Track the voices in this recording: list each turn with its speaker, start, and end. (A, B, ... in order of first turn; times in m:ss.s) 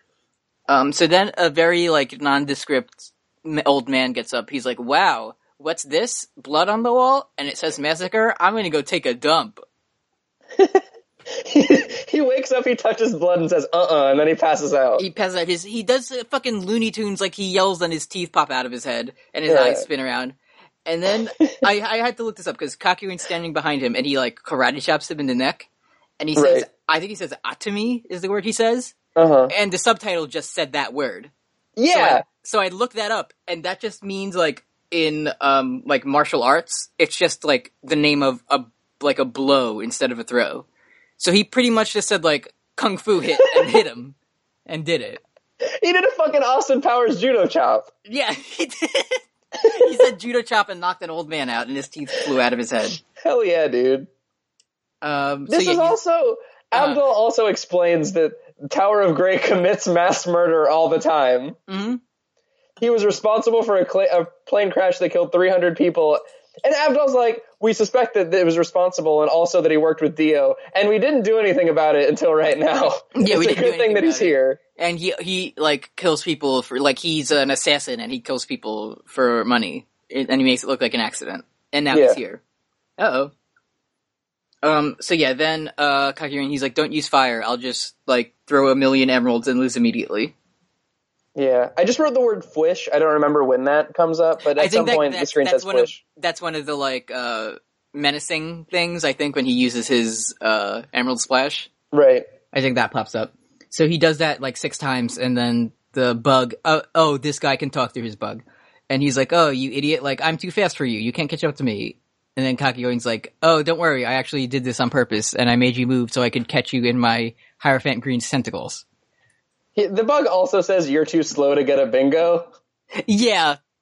0:00.7-0:09.6 A
0:10.6-0:15.0 B
0:15.0-0:20.3 A
0:19.5-0:19.8 B
0:20.8-0:25.7 A
0:26.2-0:29.0 A
0:26.4-0:26.6 B
0:29.2-0:29.5 B
0:29.5-0:31.3 A
0:31.8-0:32.2 B
0:31.9-0:40.6 A
0:41.2-0:44.1 A
0:44.6-0:45.2 A
0:45.6-0:47.9 B
0:48.0-0:53.0 A
0:53.1-0:54.1 B
0:55.0-0:56.0 A
0:55.5-1:01.6 B
0:56.7-0:57.0 A
1:01.7-1:02.0 A
1:02.8-1:14.6 B
1:13.1-1:22.4 A
1:21.9-1:22.2 B
1:23.0-1:23.3 A
1:24.6-1:30.3 A
1:31.4-1:36.0 B
1:34.5-1:41.7 A
1:41.9-1:42.2 B
1:42.5-1:58.8 A
1:59.8-2:02.5 B
2:03.0-2:03.6 A